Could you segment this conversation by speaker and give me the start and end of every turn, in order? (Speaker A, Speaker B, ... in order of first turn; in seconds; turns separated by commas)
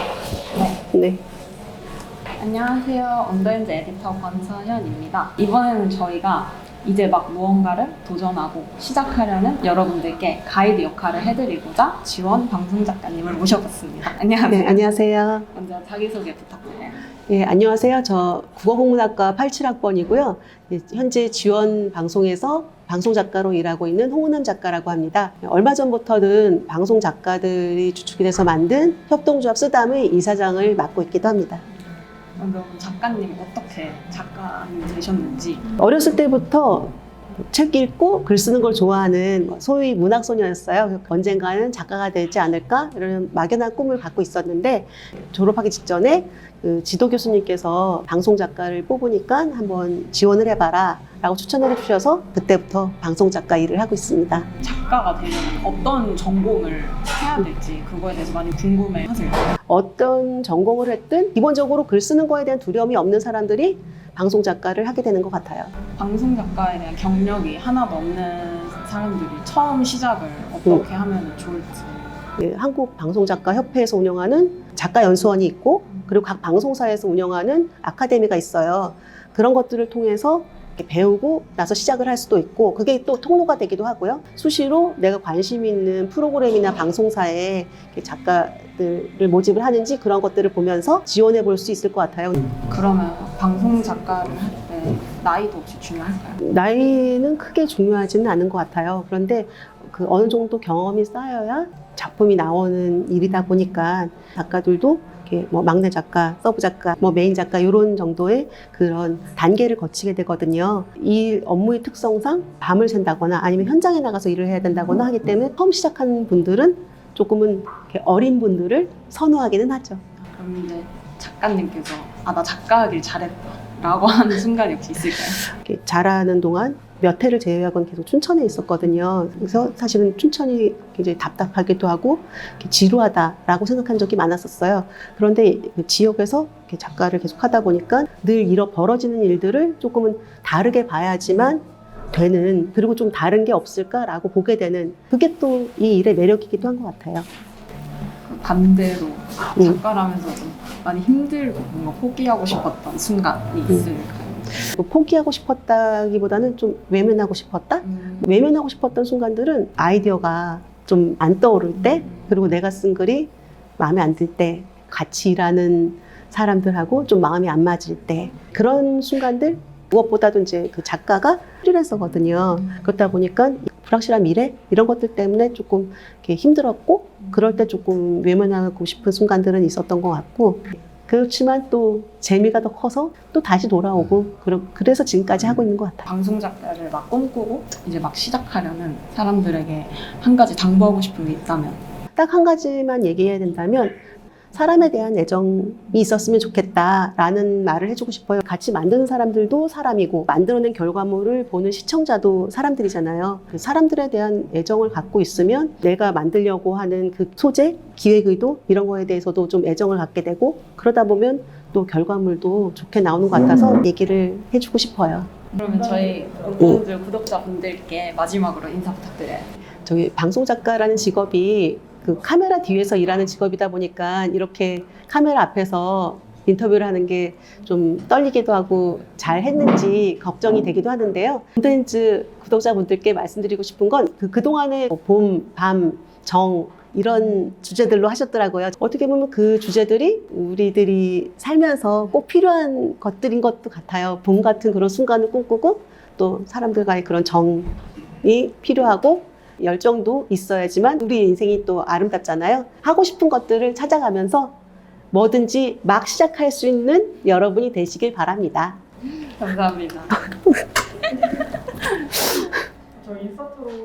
Speaker A: 0.5-0.8, Speaker B: 0.9-1.2, Speaker A: 2.4-14.9, Speaker B: 14.5-15.5, Speaker A: 15.5-17.0, Speaker B: 17.3-31.6, Speaker A: 32.4-35.7, Speaker B: 35.8-36.9, Speaker B: 37.5-54.5, Speaker A: 54.6-59.5, Speaker B: 59.7-65.7, Speaker A: 66.0-72.2, Speaker B: 72.4-92.5, Speaker A: 92.7-96.4, Speaker B: 96.4-120.0, Speaker A: 120.3-125.5, Speaker B: 125.5-147.3, Speaker A: 148.2-154.5, Speaker B: 154.7-186.1, Speaker A: 157.8-158.3, Speaker A: 186.1-191.8, Speaker B: 192.2-194.0, Speaker B: 194.5-215.3, Speaker A: 215.5-219.5, Speaker B: 219.8-247.7, Speaker B: 248.2-254.6, Speaker B: 255.1-258.8, Speaker A: 259.1-260.6, Speaker A: 261.8-262.6